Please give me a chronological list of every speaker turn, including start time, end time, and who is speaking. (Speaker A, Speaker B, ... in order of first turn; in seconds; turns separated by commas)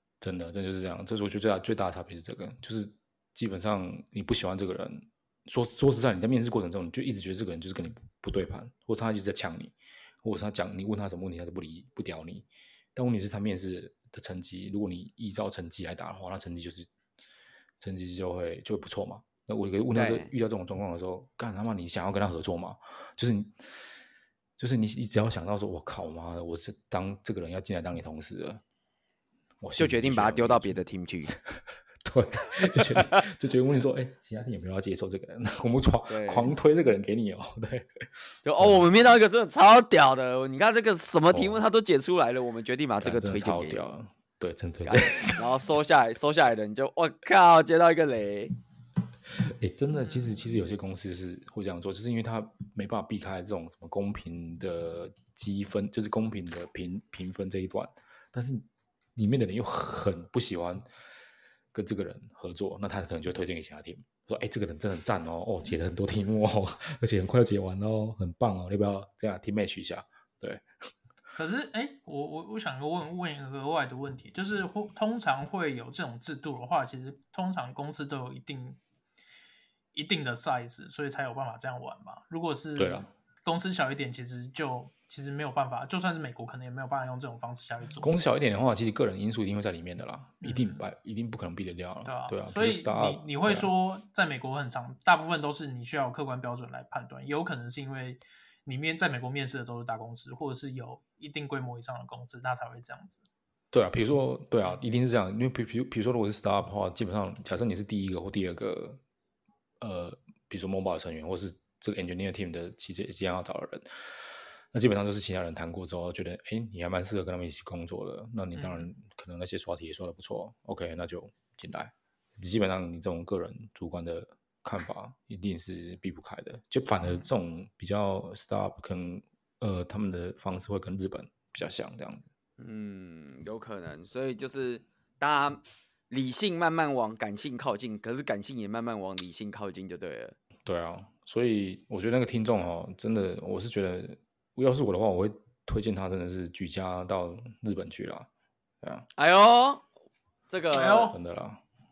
Speaker A: 0.2-16.9, Speaker A: 17.8-23.6, Speaker B: 19.9-20.3, Speaker A: 24.6-28.6, Speaker A: 29.6-31.4, Speaker B: 29.8-31.3, Speaker A: 32.0-37.9, Speaker B: 32.8-33.2, Speaker B: 36.1-36.5, Speaker B: 38.4-43.8, Speaker A: 41.3-41.6, Speaker A: 43.0-45.5, Speaker B: 44.9-48.5, Speaker A: 49.4-60.8, Speaker A: 61.7-70.6, Speaker C: 71.3-78.8, Speaker C: 79.9-88.1, Speaker A: 82.8-83.1, Speaker A: 88.0-93.7, Speaker C: 90.4-90.8, Speaker C: 92.0-103.2, Speaker A: 103.7-109.0, Speaker A: 109.8-132.3, Speaker C: 118.5-118.9, Speaker B: 132.6-140.3, Speaker A: 140.6-148.3, Speaker A: 148.8-149.1, Speaker B: 149.1-149.8, Speaker B: 150.5-151.1, Speaker C: 150.7-151.1, Speaker A: 151.0-151.6